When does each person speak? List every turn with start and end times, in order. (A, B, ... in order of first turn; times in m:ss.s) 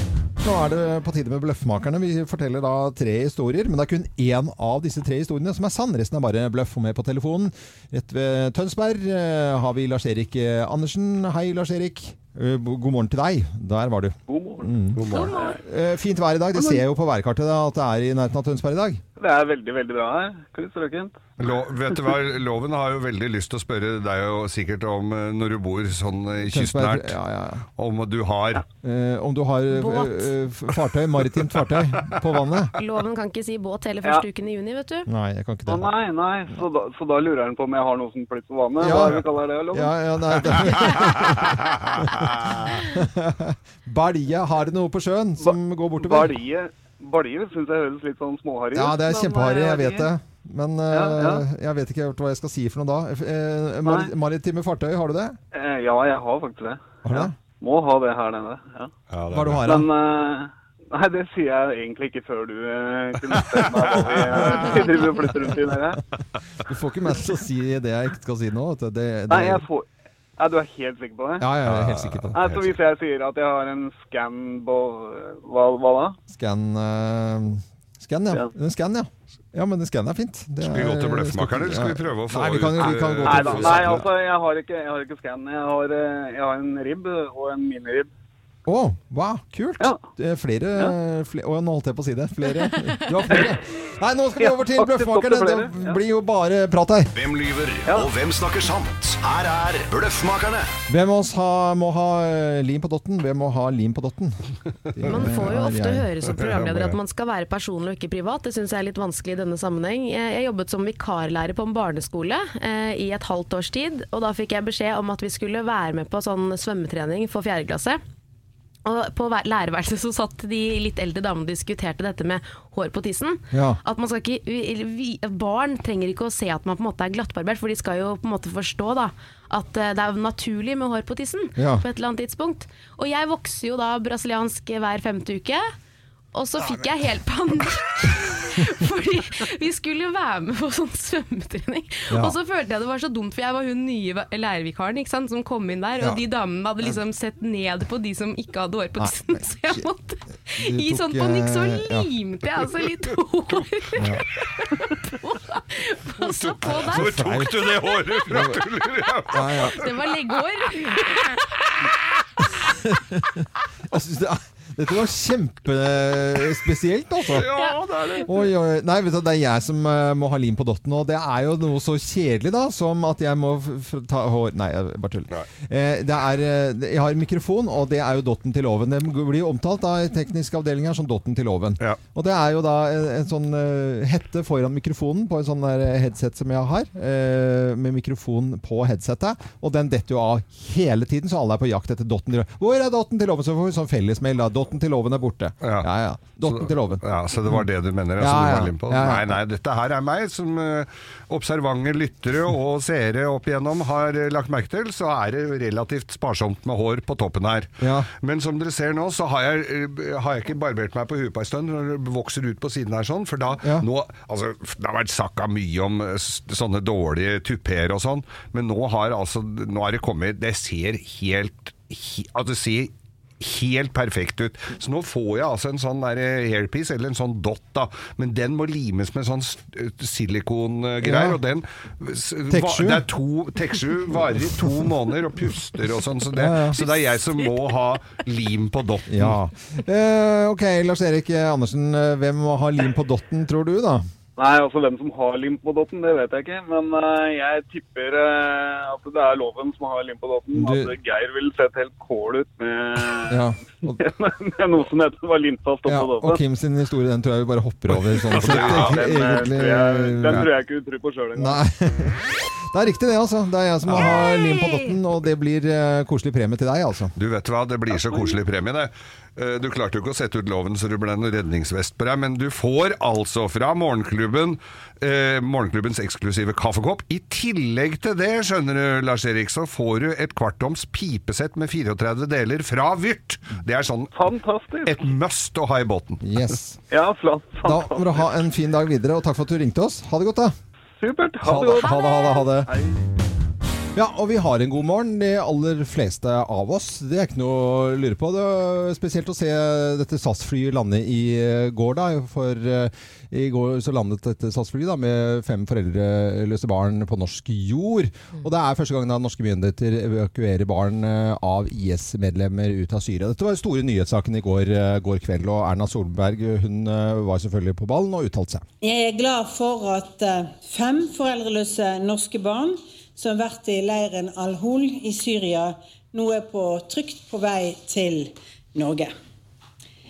0:00.4-0:19.0 A
0:14.3-0:15.6 B
0:15.0-0:15.3 C
0:19.2-0:21.2 B
0:21.4-0:27.1 C
0:26.4-0:27.6 A
0:27.8-0:28.6 C
0:28.8-0:32.7 A
0:29.7-0:30.3 D
0:32.8-0:35.1 D
0:35.1-0:35.9 A
0:35.7-0:40.6 B
0:38.8-0:46.4 A
0:45.4-0:50.1 B
0:48.7-0:55.4 A
0:50.9-0:51.4 B
0:53.8-0:54.1 B
0:55.5-0:58.9 B
0:57.0-0:57.3 A
0:59.1-0:59.7 C
0:59.3-0:59.9 A
0:59.6-1:06.0 B
1:03.9-1:04.7 C
1:04.3-1:04.9 A
1:06.7-1:09.6 A
1:09.3-1:09.9 B
1:10.4-1:11.5 B
1:11.4-1:12.4 A
1:11.6-1:12.8 C
1:12.4-1:16.2 B
1:16.3-1:24.0 A
1:20.6-1:24.1 C
1:23.2-1:28.1 B
1:28.7-1:37.1 A
1:34.4-1:36.0 B
1:37.2-1:40.7 E
1:40.9-1:44.4 A
1:45.0-1:46.1 A
1:45.0-1:58.0 D
1:46.4-1:47.0 C
1:58.8-2:15.7 D
2:03.5-2:03.8 A
2:11.6-2:11.8 A
2:16.3-2:37.2 D
2:22.1-2:22.4 A
2:29.0-2:29.8 A
2:30.6-2:32.1 A
2:34.0-2:34.2 A
2:36.2-2:39.6 C
2:36.7-2:37.6 A
2:38.3-2:38.6 A
2:39.3-2:39.8 A
2:39.6-2:41.7 D
2:42.9-2:47.5 A
2:47.3-2:48.5 C
2:48.3-3:17.7 A
3:15.6-3:15.9 C
3:16.4-3:59.4 C
3:18.2-3:19.4 A
3:27.8-3:28.1 A
3:51.0-3:51.4 A
3:52.5-3:53.1 A
3:56.3-3:56.8 A
3:59.1-4:04.0 A
4:04.4-4:16.4 B
4:10.5-4:10.9 A
4:13.3-4:14.0 A
4:15.8-4:20.5 A
4:17.9-4:19.0 C
4:18.4-4:21.6 B
4:21.4-4:22.2 A
4:22.7-4:27.1 A
4:23.9-4:24.2 C
4:24.0-4:24.9 D
4:27.2-4:44.2 C
4:44.1-4:45.0 B
4:44.8-4:46.2 C
4:46.2-4:46.8 A
4:46.9-4:48.2 B
4:47.6-4:50.6 A
4:51.0-4:53.0 B
4:51.4-4:52.7 A
4:51.8-4:52.4 D
4:54.0-5:18.7 A
5:18.8-5:29.1 F